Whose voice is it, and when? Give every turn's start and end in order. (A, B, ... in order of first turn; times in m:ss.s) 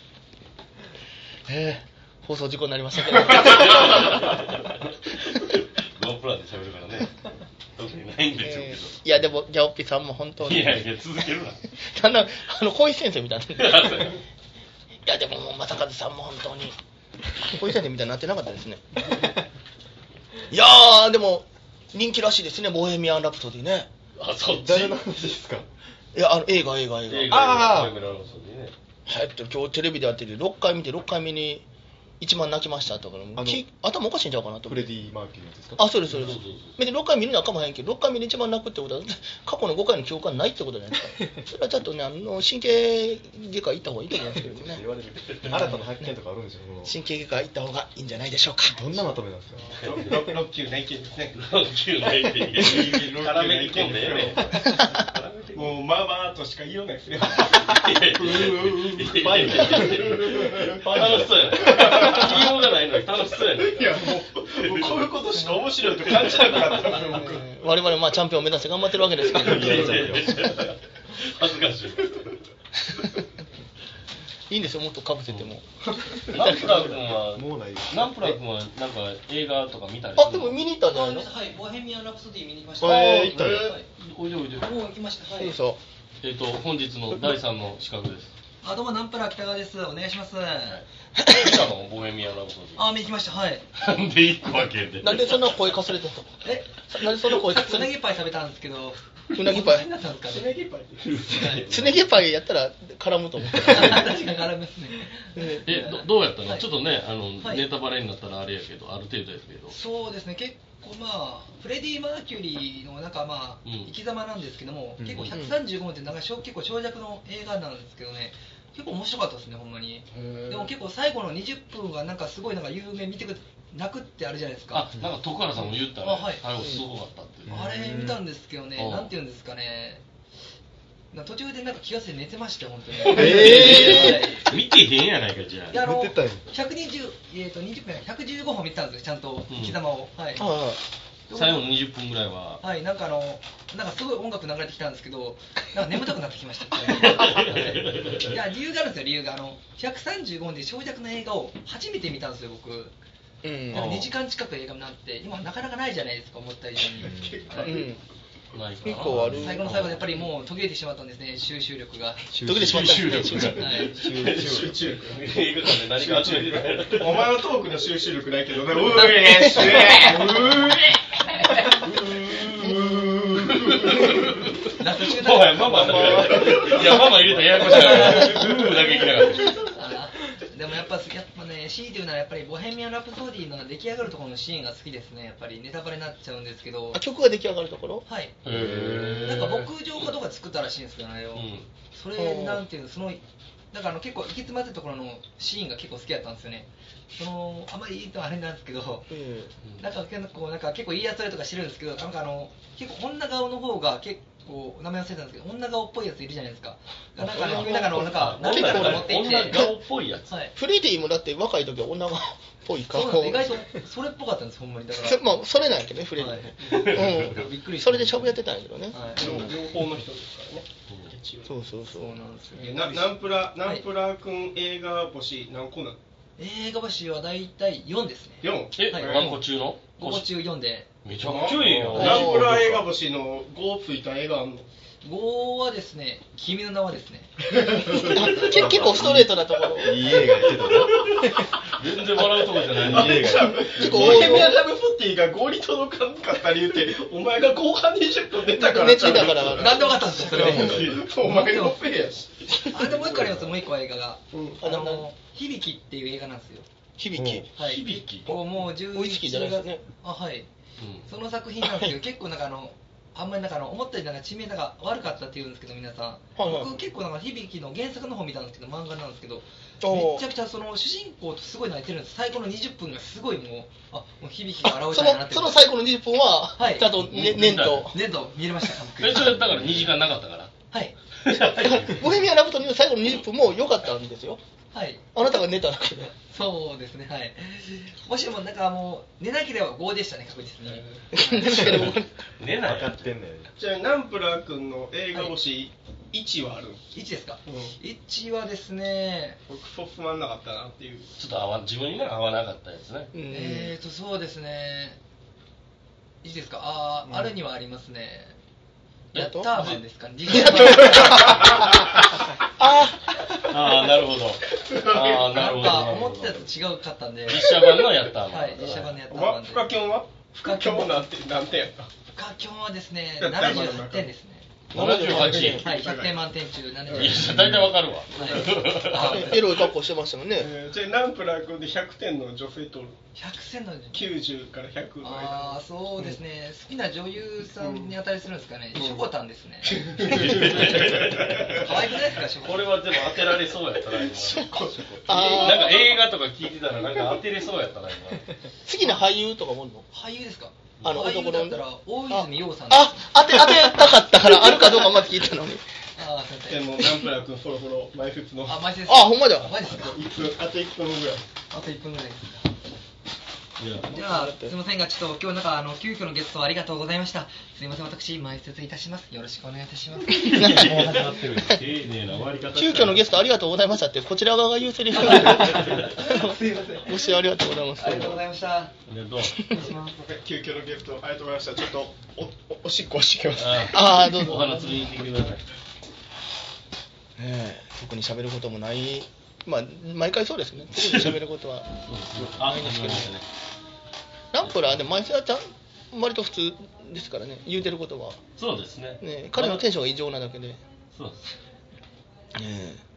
0:01.5-0:04.3 A
0:03.5-0:09.0 B
0:08.4-0:10.9 A
0:10.4-0:11.6 B
0:11.7-0:14.2 A
0:13.6-0:14.2 B
0:15.0-0:16.8 A
0:17.4-0:19.2 A
0:20.5-0:23.9 A
0:24.2-0:25.4 B
0:24.5-0:25.6 C
0:26.1-0:27.8 A
0:27.1-0:28.7 B
0:27.3-0:28.0 C
0:29.1-0:31.6 A
0:32.2-0:34.8 A
0:33.4-0:33.7 C
0:34.6-0:35.9 C
0:35.8-0:44.8 A
0:36.1-0:36.8 B
0:44.6-0:46.9 C
0:45.4-0:45.7 B
0:45.5-0:46.1 A
0:46.8-0:49.1 A
0:48.7-0:49.9 C
0:49.6-0:51.4 D
0:51.3-0:55.7 B
0:52.5-0:52.9 C
0:52.6-0:54.8 D
0:53.8-0:54.6 C
0:55.5-0:59.0 D
0:57.4-1:07.2 B
0:57.8-1:00.3 C
0:59.8-1:02.6 D
1:00.8-1:01.8 C
1:03.5-1:07.6 D
1:07.0-1:10.4 A
1:09.2-1:12.3 B
1:09.4-1:10.4 C
1:12.9-1:13.2 A
1:14.5-1:16.8 A
1:16.0-1:18.3 C
1:16.3-1:20.6 B
1:20.2-1:21.3 A
1:20.9-1:23.8 E
1:22.8-1:23.8 C
1:22.9-1:24.9 B
1:24.6-1:25.6 E
1:25.4-1:25.8 A
1:26.2-1:28.3 B
1:28.6-1:30.8 E
1:30.7-1:32.8 B
1:31.2-1:31.6 A
1:32.7-1:33.7 E
1:33.8-1:35.6 B
1:35.0-1:37.9 A
1:36.4-1:40.5 E
1:39.3-1:39.9 A
1:40.2-1:41.5 D
1:41.0-1:42.0 B
1:41.3-1:41.7 E
1:41.5-1:44.2 A
1:43.6-1:46.7 E
1:45.3-1:45.7 A
1:45.6-1:49.8 B
1:47.4-1:47.6 E
1:49.7-2:04.9 E
1:53.6-1:53.9 B
1:55.0-1:55.4 C
2:04.7-2:07.6 B
2:06.0-2:06.4 E
2:07.4-2:08.2 C
2:07.5-2:10.0 E
2:08.8-2:09.1 B
2:11.1-2:14.5 E
2:13.1-2:15.8 B
2:13.1-2:13.9 C
2:13.2-2:14.1 A
2:15.7-2:20.5 E
2:15.7-2:16.5 C
2:19.5-2:19.8 B
2:20.4-2:20.8 A
2:21.3-2:21.7 E
2:21.3-2:22.6 B
2:22.6-2:32.9 E
2:26.9-2:28.3 B
2:33.4-2:34.1 A
2:33.7-2:37.1 E
2:33.7-2:34.0 B
2:36.9-2:37.9 D
2:37.0-2:37.6 C
2:37.6-2:38.0 A
2:38.5-2:40.1 B
2:38.8-2:39.9 A
2:39.3-2:42.2 E
2:42.3-2:45.0 C
2:42.4-2:43.7 A
2:42.5-2:47.4 B
2:43.5-2:44.0 E
2:44.3-2:51.0 D
2:48.9-2:50.5 E
2:51.2-2:51.7 E
2:51.5-2:59.7 B
2:53.2-2:54.0 D
2:54.7-2:58.7 E
2:55.7-2:56.8 D
2:59.5-3:07.0 E
3:06.9-3:08.0 A
3:08.0-3:08.3 E
3:08.4-3:10.1 B
3:08.5-3:09.2 C
3:09.2-3:19.1 E
3:11.3-3:11.7 B
3:12.2-3:12.6 A
3:19.1-3:19.5 A
3:19.8-3:29.6 E
3:27.3-3:30.3 B
3:27.3-3:29.8 A
3:30.4-3:33.6 A
3:32.9-3:35.3 E
3:35.0-3:39.6 A
3:36.2-3:38.4 E
3:36.7-3:37.5 B
3:38.9-3:39.3 E
3:39.1-3:41.5 D
3:40.9-3:41.1 B
3:41.4-3:42.4 A
3:41.9-3:43.8 E
3:42.5-3:46.0 D
3:46.4-3:49.3 E
3:48.4-3:49.2 D
3:48.8-3:50.3 B
3:50.0-3:50.9 E
3:51.0-3:52.8 B
3:51.2-3:54.7 D
3:51.9-3:52.5 A
3:52.4-3:52.7 C
3:55.0-3:57.3 E
3:57.5-3:59.0 D
3:57.8-4:00.3 A
3:58.6-4:01.0 C
4:00.7-4:04.2 B
4:02.6-4:13.5 D
4:02.8-4:04.2 C
4:03.2-4:04.6 A
4:08.5-4:10.0 A
4:09.4-4:11.8 E
4:10.2-4:11.1 B
4:12.7-4:16.6 E
4:14.3-4:14.6 D
4:14.6-4:15.1 A
4:17.0-4:17.5 A
4:17.1-4:17.5 C
4:17.6-4:18.4 B
4:17.6-4:20.5 E
4:18.9-4:19.8 A
4:20.8-4:21.1 B
4:21.0-4:35.7 E
4:21.6-4:21.9 A
4:26.4-4:26.7 A
4:29.8-4:30.2 A
4:34.6-4:38.0 A
4:36.6-4:36.9 E
4:37.1-4:37.9 B
4:37.7-4:39.8 E
4:39.0-4:40.5 B
4:41.1-4:42.2 B
4:41.3-4:44.4 A
4:44.7-4:45.2 E
4:45.1-4:46.1 A
4:46.1-4:51.7 E
4:51.1-4:52.2 A
4:51.5-4:53.1 B
4:52.6-4:53.5 C
4:53.6-4:56.8 D
4:56.9-4:59.4 E
4:57.4-4:57.7 D
4:59.5-5:01.2 D
5:01.2-5:03.1 B
5:03.1-5:03.7 A
5:03.3-5:05.0 E
5:06.2-5:08.3 E
5:07.0-5:07.3 D
5:09.1-5:09.8 B
5:09.1-5:11.5 E
5:09.1-5:09.5 A
5:10.8-5:11.8 A
5:12.6-5:13.5 A
5:13.3-5:16.4 B
5:14.6-5:15.7 D
5:15.2-5:17.5 E
5:17.3-5:19.0 B
5:18.3-5:19.6 E
5:18.7-5:21.9 D
5:20.4-5:21.0 E
5:22.1-5:24.5 E
5:23.2-5:24.1 D
5:24.7-5:25.7 B
5:24.7-5:25.7 A
5:24.8-5:26.2 D
5:25.5-5:27.6 E
5:26.8-5:27.5 D
5:26.9-5:29.3 B
5:28.1-5:29.5 E
5:28.2-5:28.6 D
5:28.9-5:30.5 A
5:30.4-5:33.0 D
5:33.1-5:34.1 E
5:33.9-5:36.1 D
5:35.0-5:40.5 E
5:37.6-5:37.9 D
5:38.7-5:39.0 D
5:39.6-5:41.6 D
5:40.1-5:44.5 B
5:41.4-5:42.8 E
5:44.3-5:45.5 D
5:44.3-5:45.8 A
5:45.1-5:48.3 B
5:48.6-5:49.8 A
5:49.9-5:53.1 E
5:50.8-5:55.6 A
5:56.0-5:56.7 E
5:56.5-5:58.7 D
5:58.5-6:00.0 E
5:58.9-5:59.5 A
5:59.7-6:01.2 D
6:01.5-6:02.5 E
6:03.6-6:04.0 B
6:03.9-6:10.7 E
6:04.0-6:04.5 A
6:10.0-6:13.1 B
6:10.2-6:11.6 A
6:12.5-6:18.2 A
6:15.1-6:15.9 B
6:15.3-6:17.2 E
6:17.8-6:18.7 E
6:18.9-6:19.5 B
6:19.3-6:19.7 A
6:19.5-6:23.8 D
6:23.3-6:25.4 B
6:23.7-6:24.9 A
6:27.2-6:33.1 A
6:31.8-6:33.3 B
6:34.3-6:38.2 A
6:34.4-6:34.8 B
6:38.4-6:39.6 B
6:39.0-6:40.6 A
6:40.9-6:41.4 B
6:42.3-6:42.8 A